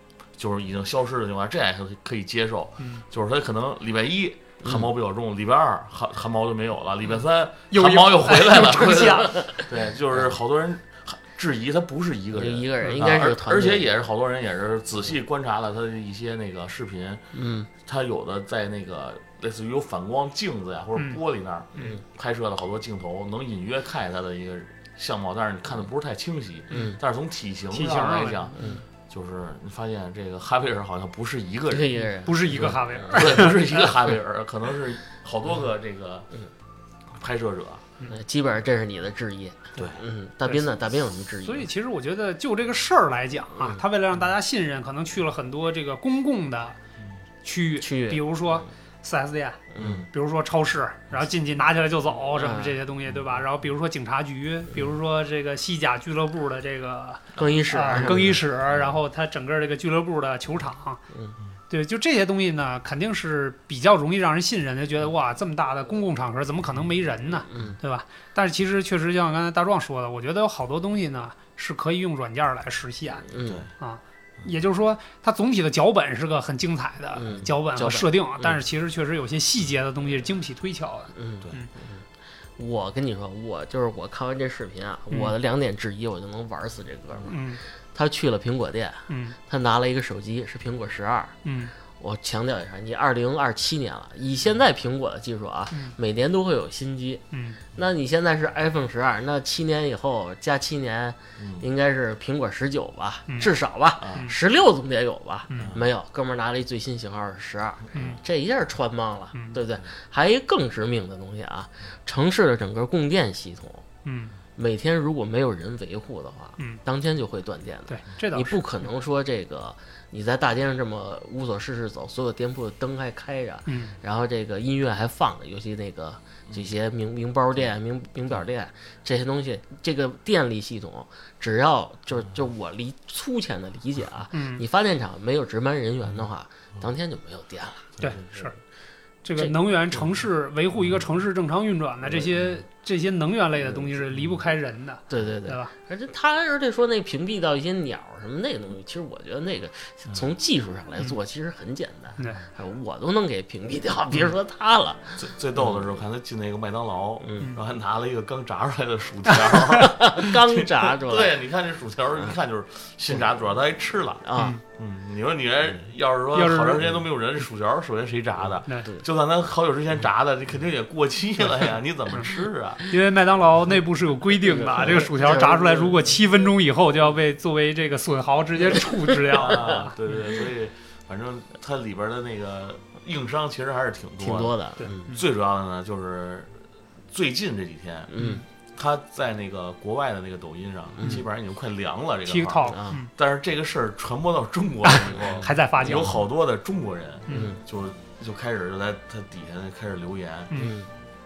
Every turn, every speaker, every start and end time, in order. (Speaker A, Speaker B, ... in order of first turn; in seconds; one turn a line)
Speaker A: 0.4-17.3
Speaker B: 7.7-9.4
Speaker C: 8.7-9.7
Speaker C: 12.3-13.9
Speaker C: 17.3-17.7
Speaker A: 17.9-32.1
Speaker B: 21.0-21.2
Speaker C: 26.7-27.0
Speaker B: 27.7-28.5
Speaker C: 28.6-28.8
Speaker C: 31.7-32.8
Speaker B: 32.2-33.7
Speaker A: 33.1-36.3
Speaker A: 37.2-37.9
Speaker C: 38.1-41.7
Speaker A: 39.8-40.0
Speaker B: 40.4-40.7
Speaker B: 41.4-46.8
Speaker B: 47.4-61.0
Speaker C: 47.8-48.2
Speaker C: 49.7-50.0
Speaker A: 49.8-50.1
Speaker C: 52.4-52.8
Speaker C: 57.4-58.4
Speaker B: 61.7-73.3
Speaker C: 67.5-67.8
Speaker C: 73.3-73.7
Speaker A: 73.4-73.7
Speaker B: 73.8-81.7
Speaker C: 77.2-78.6
Speaker C: 81.2-82.0
Speaker C: 82.6-87.4
Speaker B: 87.3-87.6
Speaker C: 87.9-91.3
Speaker B: 89.1-89.4
Speaker B: 91.5-91.7
Speaker C: 92.0-97.2
Speaker B: 97.3-97.6
Speaker C: 97.8-113.8
Speaker A: 101.4-101.7
Speaker B: 103.3-103.5
Speaker A: 104.0-104.3
Speaker B: 105.5-105.7
Speaker A: 105.6-105.8
Speaker B: 107.9-108.2
Speaker B: 114.0-114.3
Speaker C: 114.6-138.5
Speaker B: 117.9-118.6
Speaker B: 123.7-124.0
Speaker B: 134.3-134.6
Speaker B: 138.0-138.6
Speaker B: 139.2-145.7
Speaker C: 145.1-155.8
Speaker B: 152.2-152.4
Speaker A: 155.2-172.9
Speaker C: 157.2-157.5
Speaker B: 159.3-159.8
Speaker C: 159.8-161.4
Speaker C: 164.2-164.6
Speaker B: 166.3-166.9
Speaker B: 172.9-180.0
Speaker C: 174.4-176.0
Speaker A: 179.3-184.6
Speaker C: 184.2-185.1
Speaker B: 184.8-185.2
Speaker A: 185.1-186.6
Speaker A: 187.1-188.1
Speaker C: 188.1-188.4
Speaker B: 188.2-188.4
Speaker A: 188.8-200.5
Speaker B: 192.3-193.1
Speaker C: 192.7-193.0
Speaker B: 194.8-196.2
Speaker B: 197.3-197.6
Speaker C: 197.3-197.6
Speaker C: 200.6-200.9